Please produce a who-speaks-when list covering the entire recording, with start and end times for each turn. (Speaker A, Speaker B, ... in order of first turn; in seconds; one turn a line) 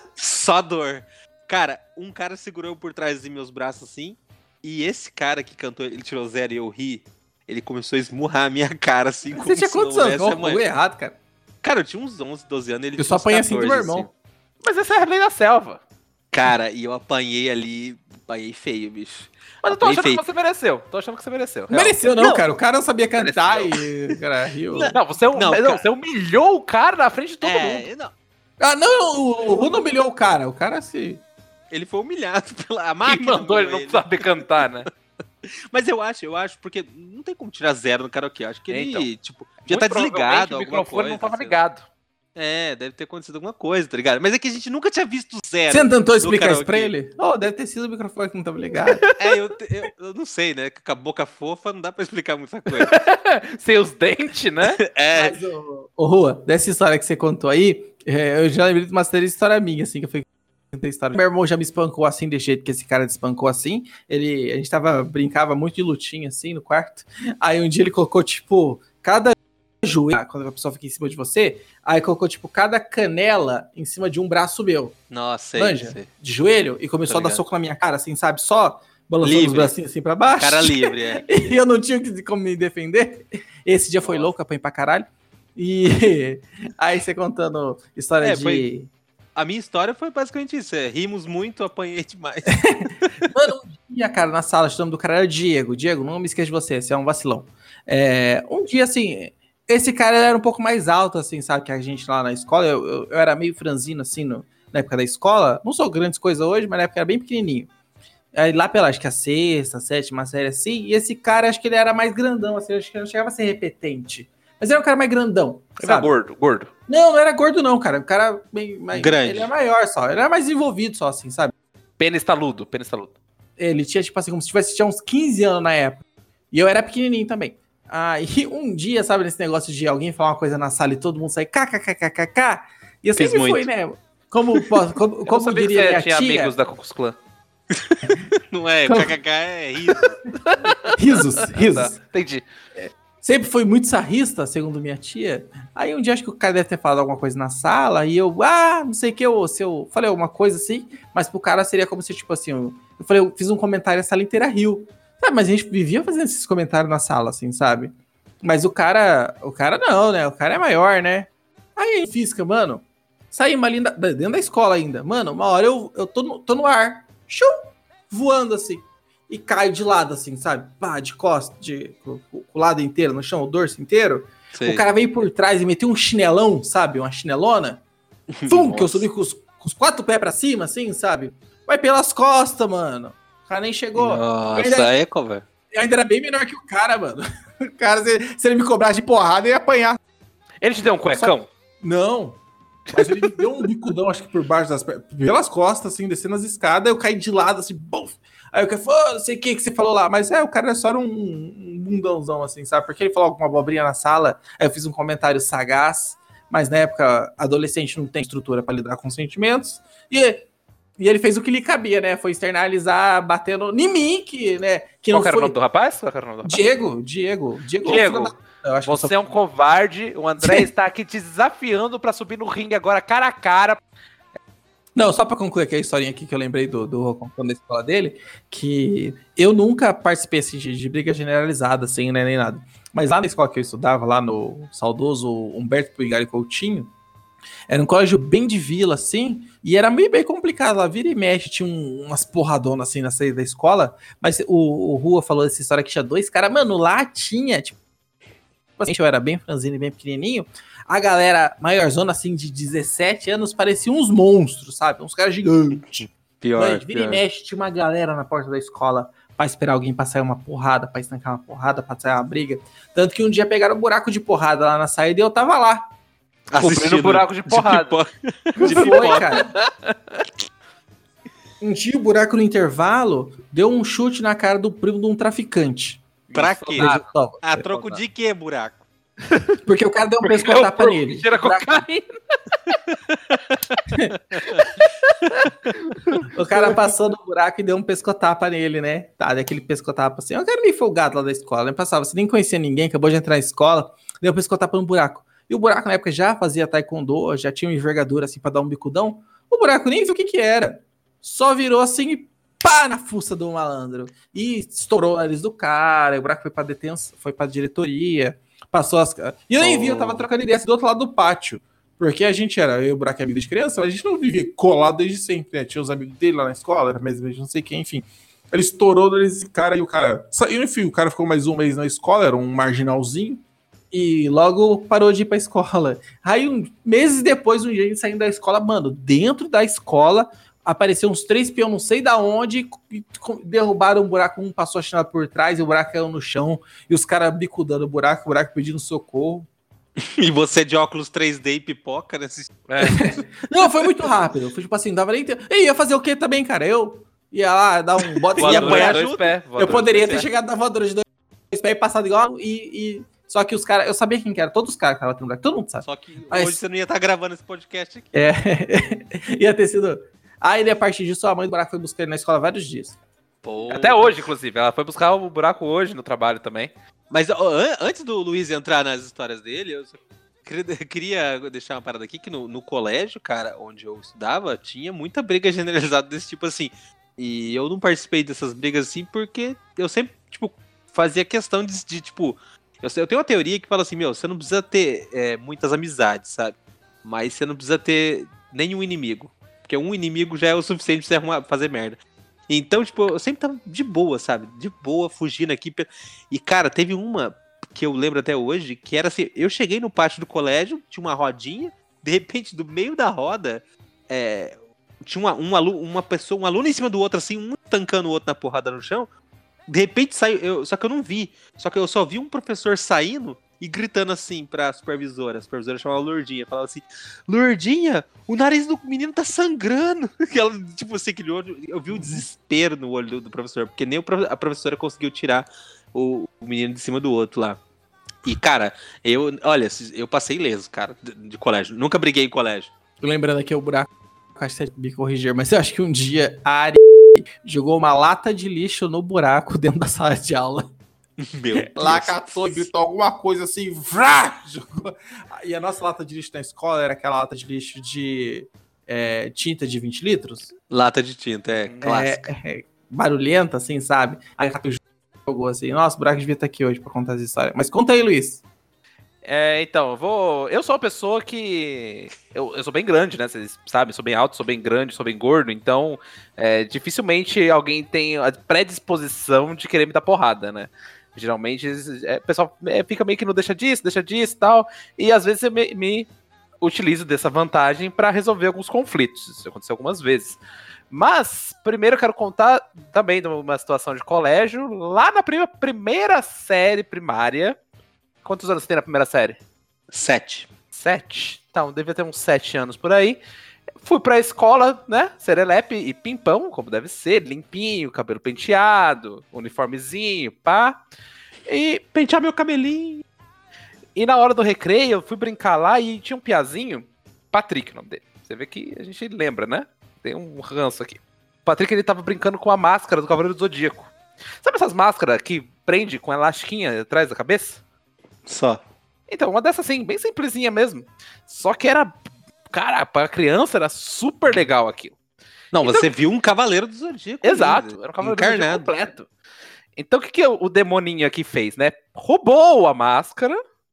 Speaker A: 0.2-10.6
Speaker B: 9.3-11.2
Speaker A: 11.6-14.1
Speaker B: 13.0-14.1
Speaker C: 14.6-15.8
Speaker A: 16.3-20.2
Speaker C: 19.6-22.0
Speaker B: 21.7-24.9
Speaker A: 22.2-22.4
Speaker A: 24.7-25.9
Speaker C: 24.9-27.9
Speaker A: 27.4-28.1
Speaker B: 28.6-31.2
Speaker A: 31.7-34.7
Speaker C: 33.1-34.9
Speaker A: 35.7-41.6
Speaker C: 38.7-39.1
Speaker C: 39.7-41.9
Speaker A: 42.4-46.9
Speaker B: 45.7-49.0
Speaker A: 49.2-53.0
Speaker C: 52.9-54.8
Speaker A: 54.8-55.4
Speaker B: 55.1-75.0
Speaker A: 75.1-76.1
Speaker B: 75.6-88.9
Speaker A: 77.1-77.4
Speaker A: 79.2-79.7
Speaker A: 80.3-81.2
Speaker A: 88.2-88.7
Speaker A: 89.4-92.7
Speaker B: 92.5-107.7
Speaker B: 108.3-116.1
Speaker C: 115.8-116.7
Speaker B: 116.9-121.5
Speaker A: 118.9-119.5
Speaker C: 122.0-123.2
Speaker B: 123.6-136.6
Speaker C: 133.2-133.6
Speaker C: 135.3-137.2
Speaker A: 137.7-140.2
Speaker B: 138.9-139.2
Speaker C: 140.4-142.5
Speaker B: 140.9-142.0
Speaker B: 142.8-177.8
Speaker A: 174.5-174.8
Speaker A: 178.3-179.0
Speaker B: 178.5-184.9
Speaker A: 184.0-185.4
Speaker B: 185.7-190.0
Speaker C: 190.6-191.5
Speaker B: 191.1-192.4
Speaker C: 192.9-193.3
Speaker B: 192.9-210.4
Speaker B: 211.0-215.6
Speaker C: 215.1-216.6
Speaker B: 216.4-219.3
Speaker C: 217.8-218.3
Speaker C: 218.8-223.8
Speaker B: 220.4-220.7
Speaker B: 225.0-236.9
Speaker B: 237.7-247.8
Speaker B: 248.8-265.9
Speaker A: 255.7-257.2
Speaker A: 266.5-269.4
Speaker C: 266.6-268.0
Speaker B: 268.6-269.5
Speaker C: 268.6-270.3
Speaker B: 271.6-276.0
Speaker C: 276.3-277.1
Speaker A: 276.3-278.8
Speaker B: 276.8-278.0
Speaker C: 279.3-279.6
Speaker B: 279.6-281.8
Speaker C: 280.2-282.1
Speaker C: 284.5-286.3
Speaker B: 286.3-339.5
Speaker A: 309.6-310.1
Speaker A: 340.0-342.6
Speaker C: 342.7-343.0
Speaker B: 342.8-356.6
Speaker A: 348.4-349.4
Speaker C: 348.4-350.3
Speaker A: 355.8-358.1
Speaker B: 358.1-363.0
Speaker A: 363.4-364.1
Speaker C: 363.7-366.7
Speaker A: 367.1-409.1
Speaker A: 409.7-427.6
Speaker B: 421.9-422.2
Speaker A: 428.2-432.7
Speaker B: 433.0-440.7
Speaker A: 441.2-442.6
Speaker B: 441.6-450.5
Speaker A: 450.7-452.2
Speaker B: 451.8-458.4
Speaker C: 459.2-476.1
Speaker C: 476.6-480.4
Speaker C: 480.9-487.6
Speaker C: 488.2-489.4
Speaker A: 489.9-490.5
Speaker C: 490.7-493.2
Speaker C: 493.8-500.8
Speaker C: 501.5-501.8
Speaker A: 501.9-503.0
Speaker C: 504.0-517.6
Speaker A: 518.3-518.6
Speaker C: 519.1-521.9
Speaker C: 522.5-525.0
Speaker C: 525.5-525.9
Speaker A: 525.6-528.7
Speaker C: 527.2-529.1
Speaker C: 529.8-533.4